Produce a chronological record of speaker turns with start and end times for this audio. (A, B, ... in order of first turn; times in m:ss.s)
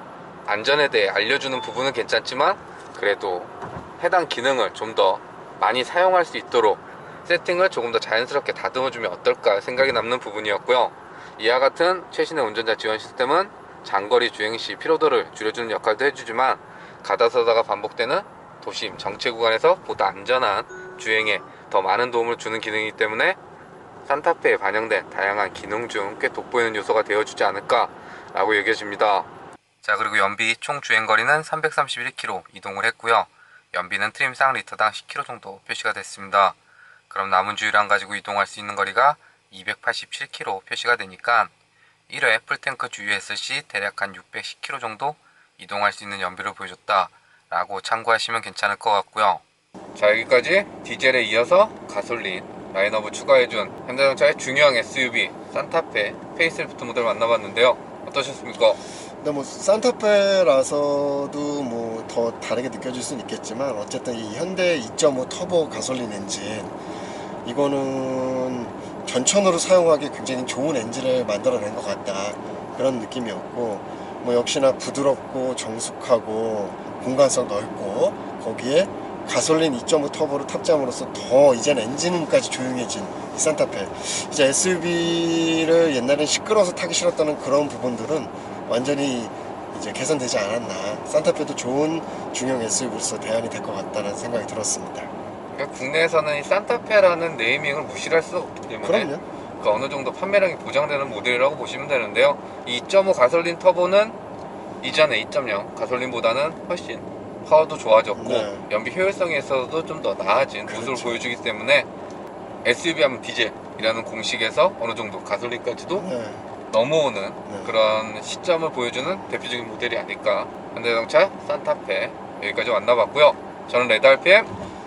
0:00.5-0:23.4 A
0:24.1-0:29.3 A
0:29.8-0:36.6 A
0:37.1-0:41.5 A
0:42.1-0:49.4 A
0:50.0-0:58.8 A
0:59.2-1:06.7 B
1:07.4-1:35.1 B
1:35.5-1:44.2 A
1:38.8-1:39.2 B
1:44.8-1:51.9 A
1:48.2-1:48.6 B
1:50.7-1:51.2 B
1:52.6-1:56.1 A
1:55.9-1:56.4 B
1:56.7-2:04.5 A
1:57.5-1:57.7 B